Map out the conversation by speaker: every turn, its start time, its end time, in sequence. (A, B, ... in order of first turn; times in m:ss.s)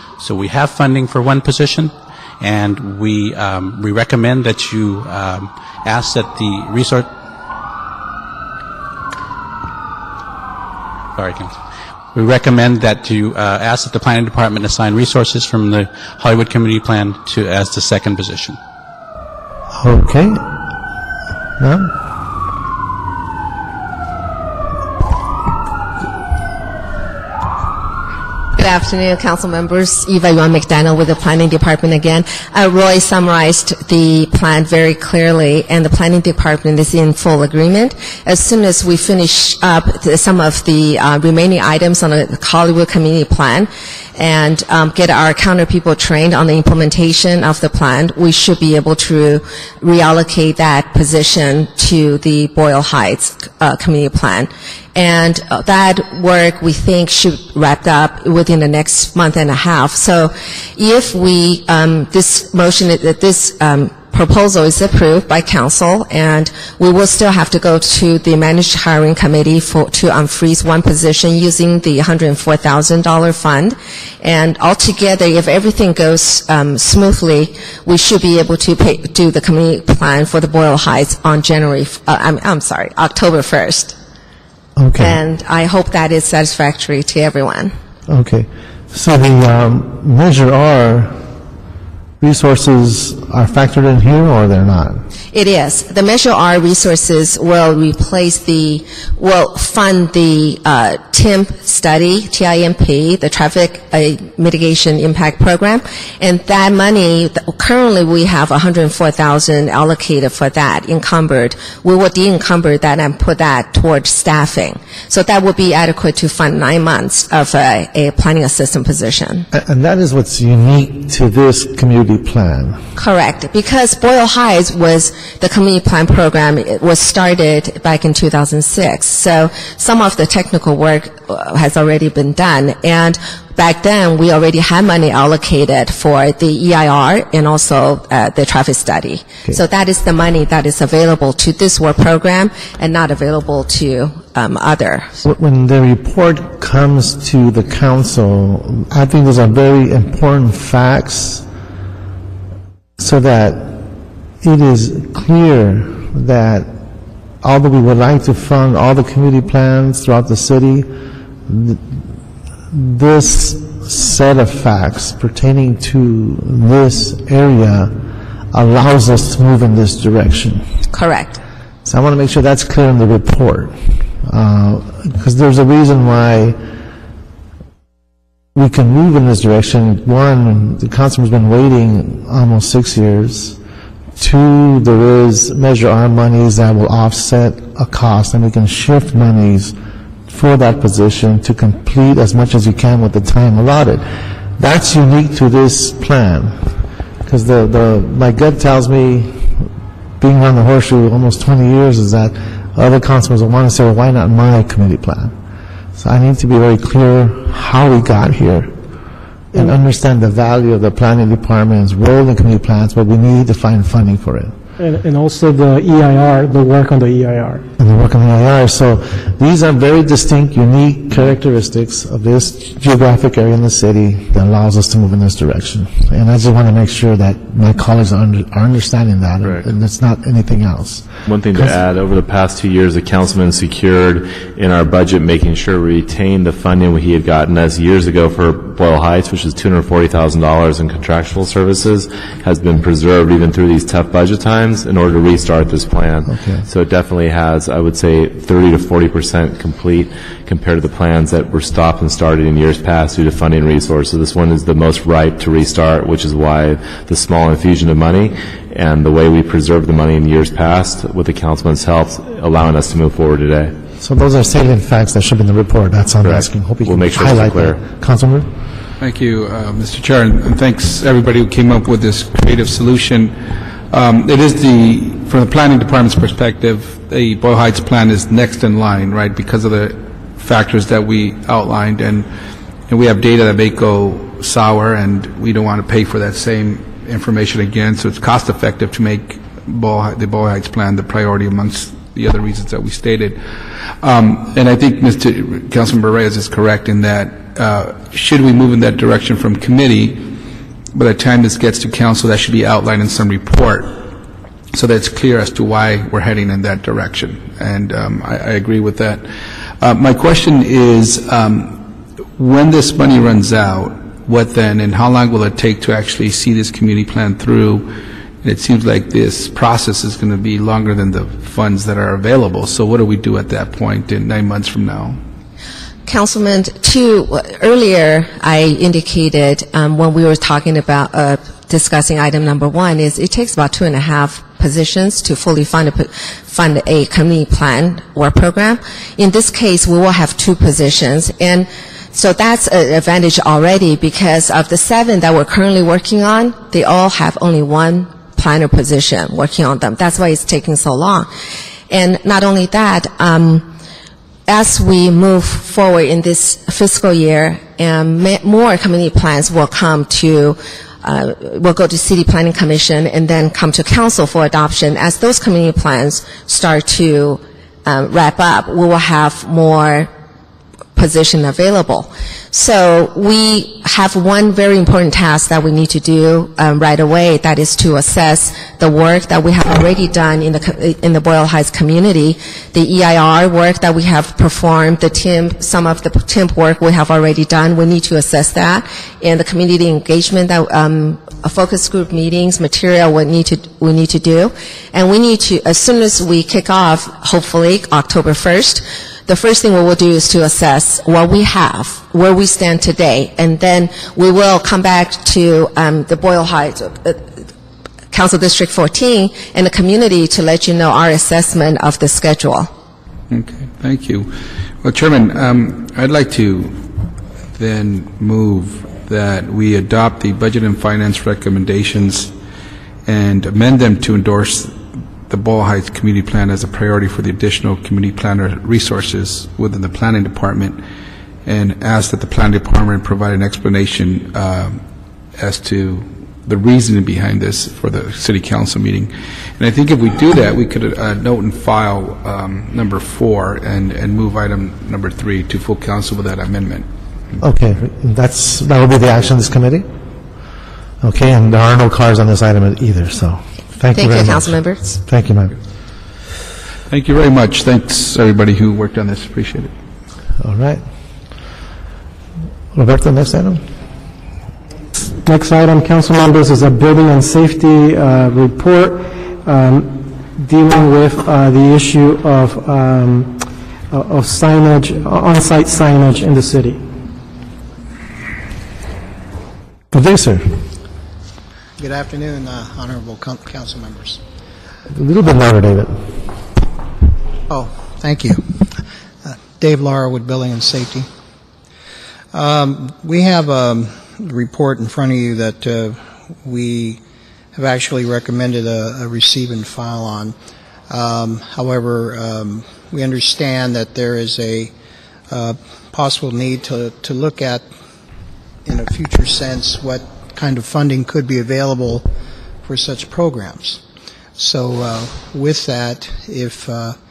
0:00.2-0:07.1 A
0:11.2-0:11.6 A
0:12.1-0:18.6 A
0:19.7-0:20.4 B
0:21.6-0:21.9 B
0:28.6-1:24.0 C
1:24.8-1:25.2 B
1:25.0-1:27.7 C
1:28.1-1:31.2 B
1:32.2-1:35.0 B
1:35.3-1:59.4 C
1:59.5-2:02.8 B
2:03.0-2:25.2 C
2:25.2-2:31.4 B
2:33.0-2:33.8 B
2:34.4-2:36.7 B
2:37.4-2:40.9 B
2:41.5-2:42.0 B
2:42.7-2:48.0 B
2:48.5-2:50.6 B
2:50.9-2:51.4 C
2:51.8-2:56.6 B
2:58.5-3:03.6 B
3:04.2-3:09.7 B
3:10.3-3:14.0 B
3:14.6-3:16.7 B
3:17.2-3:19.7 B
3:20.2-3:25.3 B
3:26.0-3:28.7 B
3:29.5-3:34.5 B
3:34.8-3:37.6 D
3:37.8-3:51.8 B
3:49.4-3:49.7 E
3:51.2-4:23.7 E
4:06.3-4:06.6 B
4:24.0-4:28.5 B
4:26.2-4:27.8 E
4:29.0-4:42.3 F
4:42.9-5:00.4 F
5:00.9-5:04.1 F
5:04.7-5:25.2 F
5:26.1-5:51.3 C
5:51.9-5:53.7 C
5:54.5-6:10.1 C
6:11.0-6:47.3 C
6:48.1-6:52.7 C
6:53.3-6:56.9 F
6:57.5-7:02.3 F
7:03.0-7:10.8 F
7:11.4-7:14.8 F
7:15.3-7:26.9 F
7:27.4-7:29.9 B
7:31.0-7:35.5 B
7:33.9-7:35.0 C
7:36.9-7:39.7 F
7:40.4-7:40.8 B
7:42.7-7:43.6 B
7:45.2-7:53.4 D
7:53.9-7:56.8 D
7:59.9-8:00.7 B
8:01.8-8:04.2 G
8:04.9-8:06.2 B
8:07.5-8:08.6 G
8:09.2-8:11.1 G
8:12.3-8:17.0 G
8:17.5-8:20.3 G
8:20.9-8:24.7 G
8:25.3-8:27.7 G
8:28.6-8:32.1 G
8:32.6-8:33.8 G
8:34.4-8:37.0 G